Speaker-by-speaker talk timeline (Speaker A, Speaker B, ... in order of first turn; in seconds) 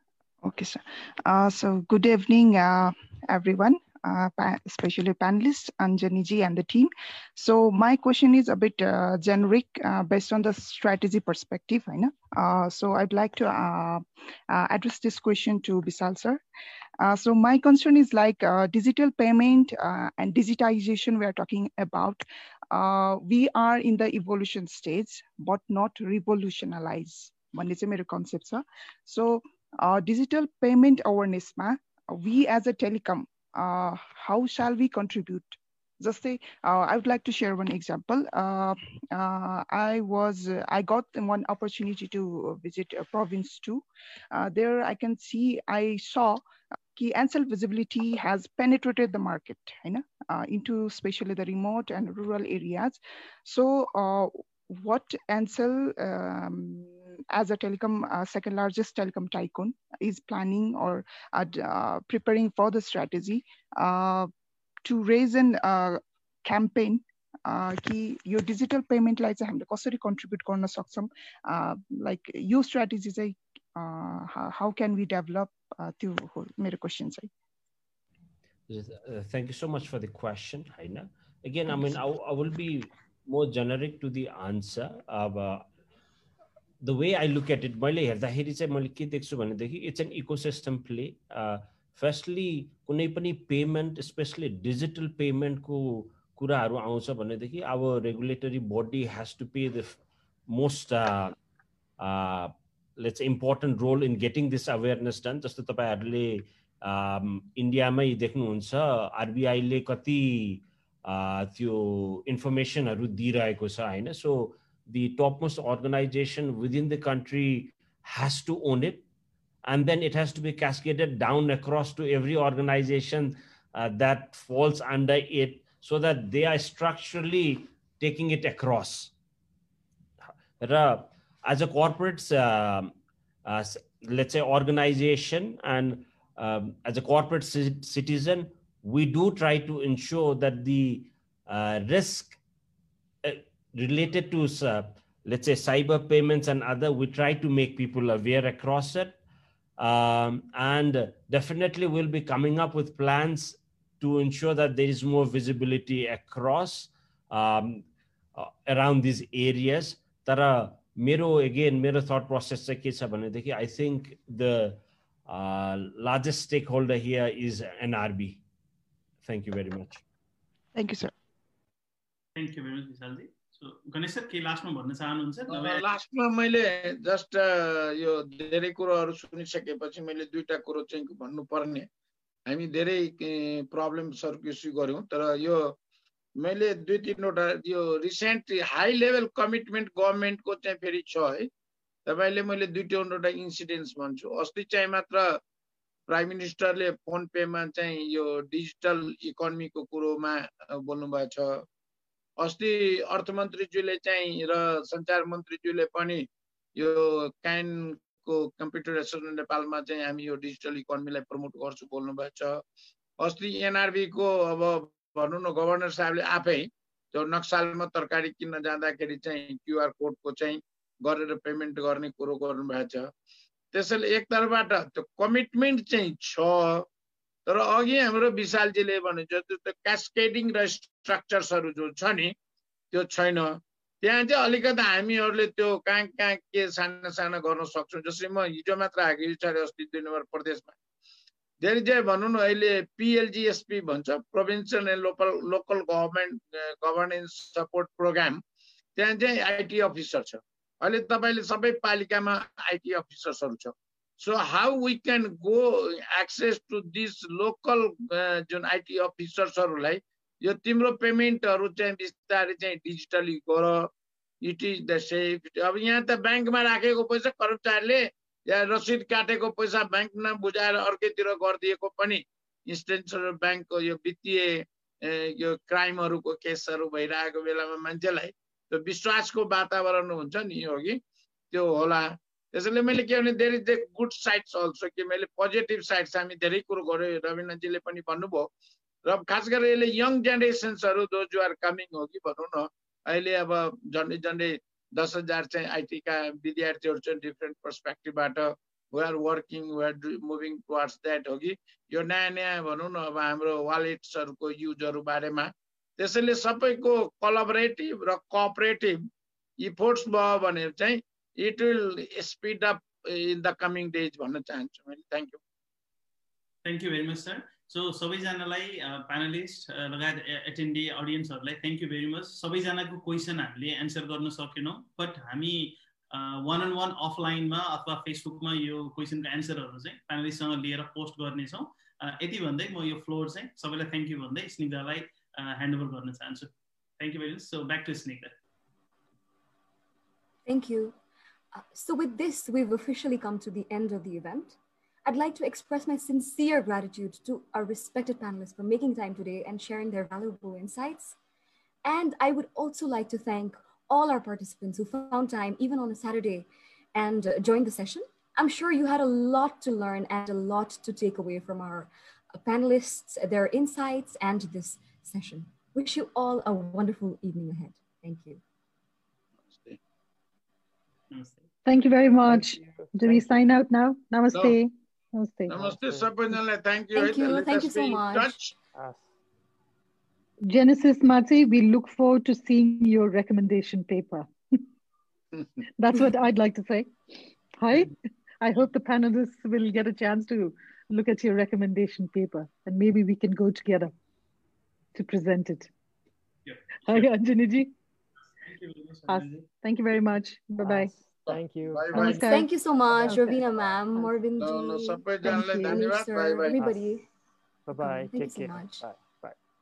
Speaker A: 0.4-16.4, 17.0-43.8, 44.4-46.4, 47.0-64.3, 64.9-77.3, 170.8-171.1
Speaker B: 78.7-85.7, 86.8-100.0, 100.5-101.4, 102.0-119.0, 119.7-129.1, 130.6-132.9, 133.4-142.4, 143.2-149.2, 149.8-168.4, 169.2-170.0
Speaker C: 172.4-175.9, 316.6-338.3, 371.1-371.4, 396.5-397.1, 398.4-399.4
Speaker D: 175.5-181.9, 182.5-185.8, 186.4-191.5, 192.1-195.4, 196.1-201.6, 202.4-212.6, 213.2-223.1, 223.7-226.9, 227.5-232.3, 232.9-240.8, 241.6-248.4, 249.0-263.9, 264.4-281.0, 281.5-288.5, 289.1-309.0, 309.6-315.4, 369.5-369.8, 375.5-378.5, 401.3-402.2, 404.4-406.6
Speaker E: 340.5-341.0, 341.5-351.2, 351.9-368.4, 376.9-378.5, 402.2-407.1, 407.8-408.8
Speaker F: 371.7-375.7, 380.4-384.6, 385.8-393.9, 394.9-395.7, 396.9-397.7, 399.1-400.9, 401.9-402.5, 403.0-403.4, 405.2-405.8
Speaker G: 372.3-373.4, 375.6-376.1, 378.7-379.1, 400.6-402.3, 407.7-409.4